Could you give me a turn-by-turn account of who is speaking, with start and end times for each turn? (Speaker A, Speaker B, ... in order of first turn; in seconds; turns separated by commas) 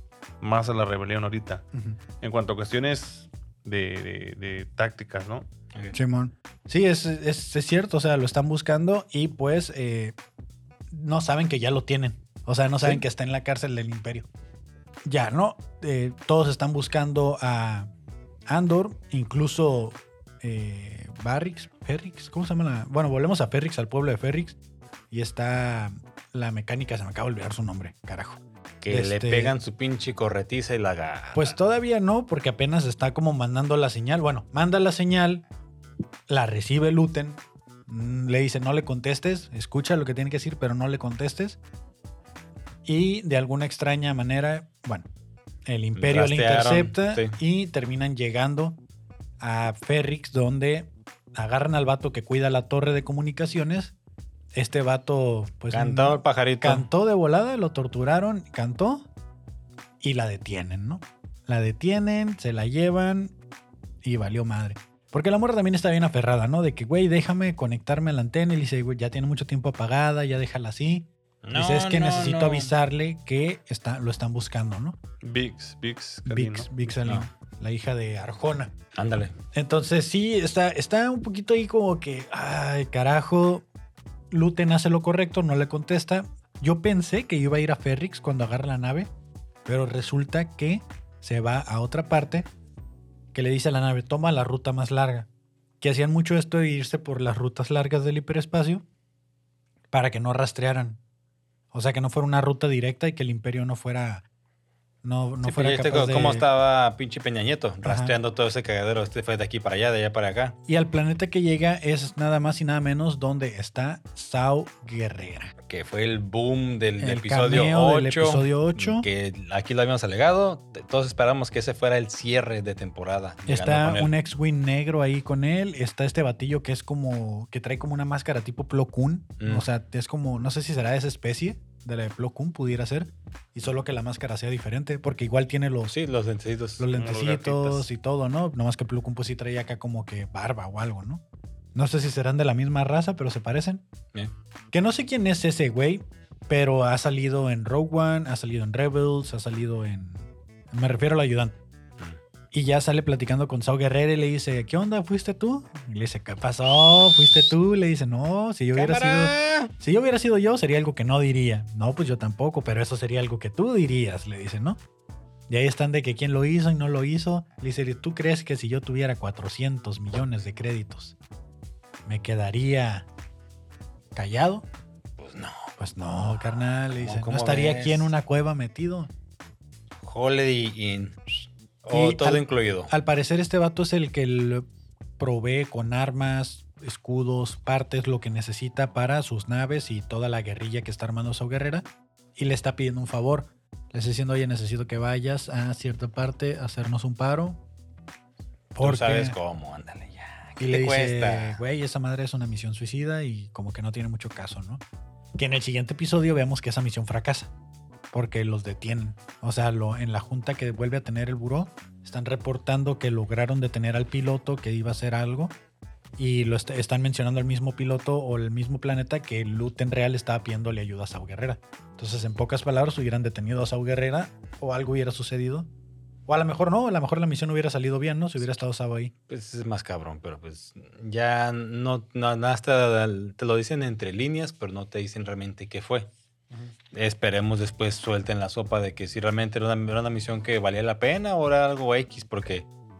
Speaker A: 0.4-1.6, Speaker B: 1.7-2.0, Speaker A: 2.2-5.5, Speaker B: 5.9-10.2, Speaker B: 10.9-14.3, Speaker B: 15.0-17.9, Speaker B: 18.5-24.6, Speaker B: 25.1-29.5, Speaker C: 28.8-31.6, Speaker B: 31.3-35.4, Speaker B: 36.3-41.6, Speaker B: 42.8-45.1, Speaker B: 45.6-48.8, Speaker C: 46.0-47.4, Speaker B: 49.4-53.9, Speaker B: 54.5-59.1, Speaker C: 55.7-56.9, Speaker B: 60.0-63.4, Speaker B: 64.0-75.0, Speaker C: 71.4-72.7, Speaker A: 75.2-76.7, Speaker B: 76.2-78.7, Speaker C: 77.0-77.3, Speaker C: 78.9-79.3, Speaker B: 79.5-83.7, Speaker B: 84.3-89.1, Speaker B: 89.6-92.5, Speaker B: 93.3-95.3, Speaker B: 95.8-98.8, Speaker B: 99.9-101.0, Speaker B: 101.7-104.2, Speaker B: 105.0-106.5, Speaker C: 105.4-110.6, Speaker B: 107.8-108.1, Speaker B: 110.7-115.5, Speaker C: 115.6-124.1, Speaker B: 117.0-119.0, Speaker B: 123.5-135.9, Speaker C: 129.4-129.7, Speaker C: 135.9-136.8, Speaker B: 136.8-141.2, Speaker A: 136.9-137.9, Speaker B: 141.7-143.8, Speaker B: 144.7-151.6, Speaker B: 152.5-164.8, Speaker C: 158.7-159.7, Speaker B: 165.5-171.2, Speaker B: 172.1-173.1, Speaker B: 174.1-174.7, Speaker C: 175.2-175.7, Speaker B: 175.8-179.1, Speaker C: 176.9-178.1, Speaker C: 180.0-182.9, Speaker B: 181.9-184.7, Speaker B: 185.2-197.6, Speaker B: 198.7-199.4, Speaker C: 198.8-201.6, Speaker B: 200.6-204.8, Speaker B: 205.3-207.5, Speaker B: 208.1-215.5, Speaker B: 216.2-225.7, Speaker B: 226.3-229.1, Speaker C: 229.3-236.1, Speaker C: 236.9-242.7